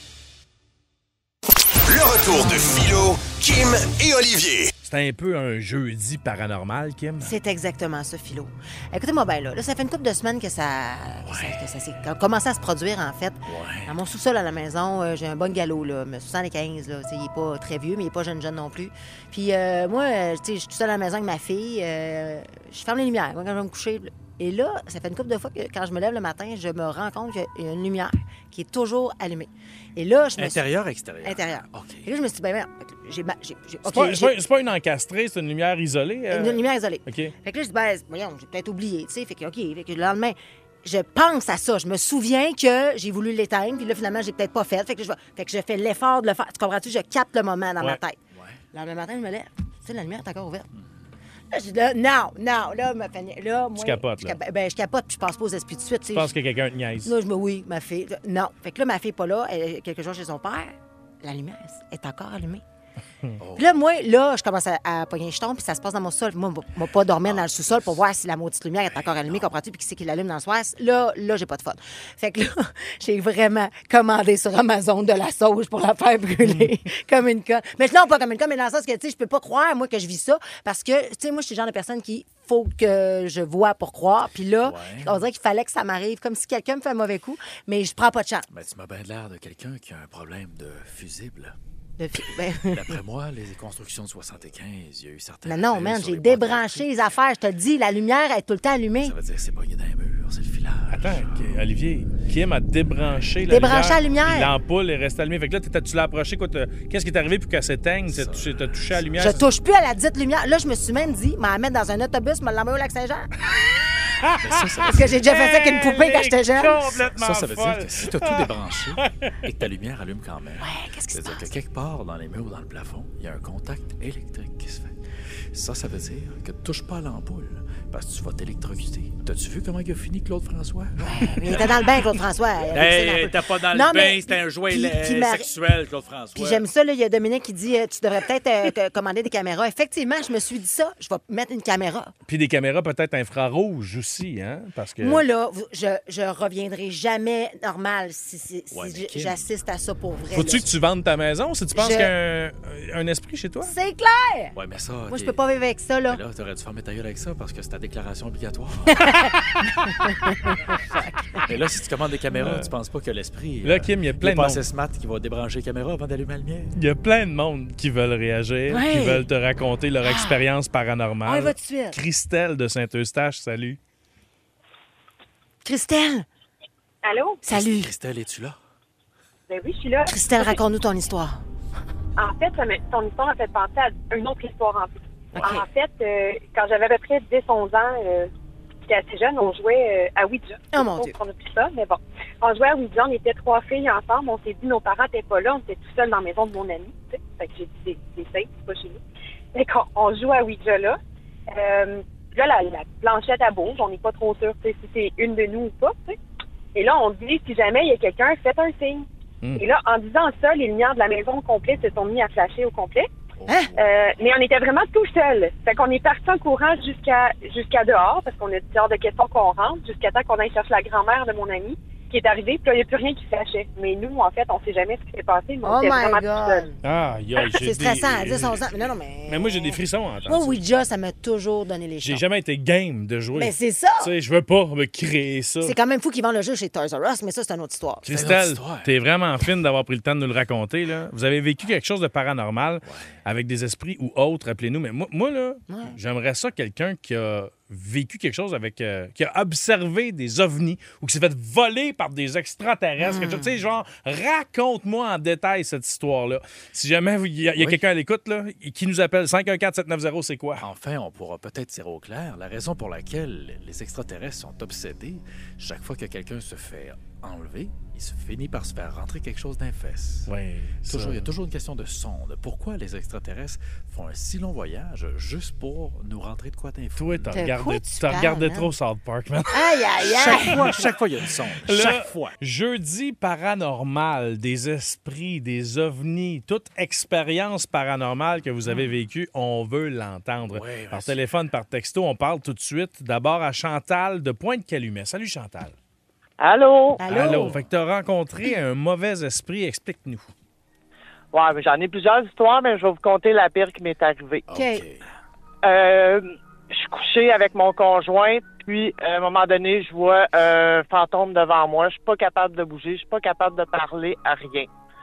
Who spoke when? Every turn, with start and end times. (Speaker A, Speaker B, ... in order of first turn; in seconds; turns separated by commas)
Speaker A: 1.9-4.7, Speaker B: 4.8-7.3, Speaker C: 7.2-30.6, Speaker D: 11.3-11.6, Speaker D: 13.4-14.0, Speaker D: 30.4-32.1, Speaker C: 31.2-34.3, Speaker B: 33.9-37.3, Speaker C: 36.3-48.2, Speaker D: 48.3-48.6, Speaker C: 48.7-50.7, Speaker D: 50.7-51.1, Speaker C: 51.5-56.3, Speaker B: 53.8-54.4, Speaker B: 56.1-57.1, Speaker C: 57.0-62.6, Speaker D: 63.4-63.7, Speaker C: 63.6-88.5, Speaker D: 67.2-68.0, Speaker D: 68.9-69.5, Speaker D: 84.6-85.2, Speaker D: 88.5-91.6, Speaker C: 92.0-93.0, Speaker D: 92.6-96.9, Speaker C: 95.5-99.2, Speaker D: 99.0-101.6, Speaker B: 100.9-109.4, Speaker C: 103.5-104.5, Speaker D: 108.1-109.5, Speaker C: 109.2-113.3, Speaker B: 114.0-114.3, Speaker D: 114.4-115.2, Speaker C: 114.9-116.8, Speaker B: 115.1-119.4, Speaker D: 116.8-125.0, Speaker C: 120.6-121.5, Speaker D: 125.5-132.0, Speaker C: 131.0-135.5, Speaker D: 132.7-136.6, Speaker C: 136.3-142.1, Speaker B: 142.3-145.2, Speaker C: 145.0-150.7, Speaker D: 148.7-149.5, Speaker B: 150.3-153.7, Speaker C: 151.8-152.1, Speaker C: 153.6-154.6, Speaker D: 154.6-155.4, Speaker C: 155.1-156.2, Speaker D: 156.1-159.2, Speaker C: 158.9-161.4, Speaker D: 161.4-166.8, Speaker B: 162.3-162.7, Speaker B: 163.6-164.6, Speaker B: 166.8-173.8, Speaker C: 168.7-169.2, Speaker C: 170.0-170.4, Speaker C: 171.3-172.0, Speaker C: 175.6-176.3, Speaker E: 177.0-177.4, Speaker C: 177.4-177.9, Speaker D: 177.5-178.6, Speaker E: 179.5-180.6, Speaker C: 180.1-181.4, Speaker E: 182.2-188.3, Speaker C: 185.3-185.6, Speaker D: 185.3-185.6, Speaker E: 188.9-199.0, Speaker C: 190.7-191.1, Speaker E: 199.5-201.0, Speaker E: 201.5-206.2, Speaker E: 206.7-213.1, Speaker D: 213.4-213.8, Speaker C: 213.5-213.7, Speaker E: 213.8-226.7, Speaker C: 225.6-226.7, Speaker B: 226.8-228.6, Speaker C: 227.6-232.2, Speaker B: 229.3-230.6, Speaker B: 232.0-235.7, Speaker C: 233.4-234.1, Speaker C: 235.6-238.1, Speaker B: 238.0-260.6, Speaker D: 238.1-238.9, Speaker D: 242.9-243.2, Speaker C: 245.7-246.0, Speaker C: 253.0-253.5, Speaker D: 257.5-257.8, Speaker D: 260.6-270.3, Speaker B: 270.3-271.3, Speaker D: 270.9-277.5, Speaker B: 277.0-279.8, Speaker C: 277.3-278.7, Speaker C: 279.5-280.6, Speaker D: 280.1-282.4, Speaker B: 281.6-295.7, Speaker D: 290.5-291.2, Speaker F: 296.4-297.0, Speaker C: 297.0-297.6, Speaker B: 297.1-300.3, Speaker F: 301.3-304.5, Speaker D: 304.5-305.1, Speaker C: 304.5-304.8, Speaker F: 305.6-314.7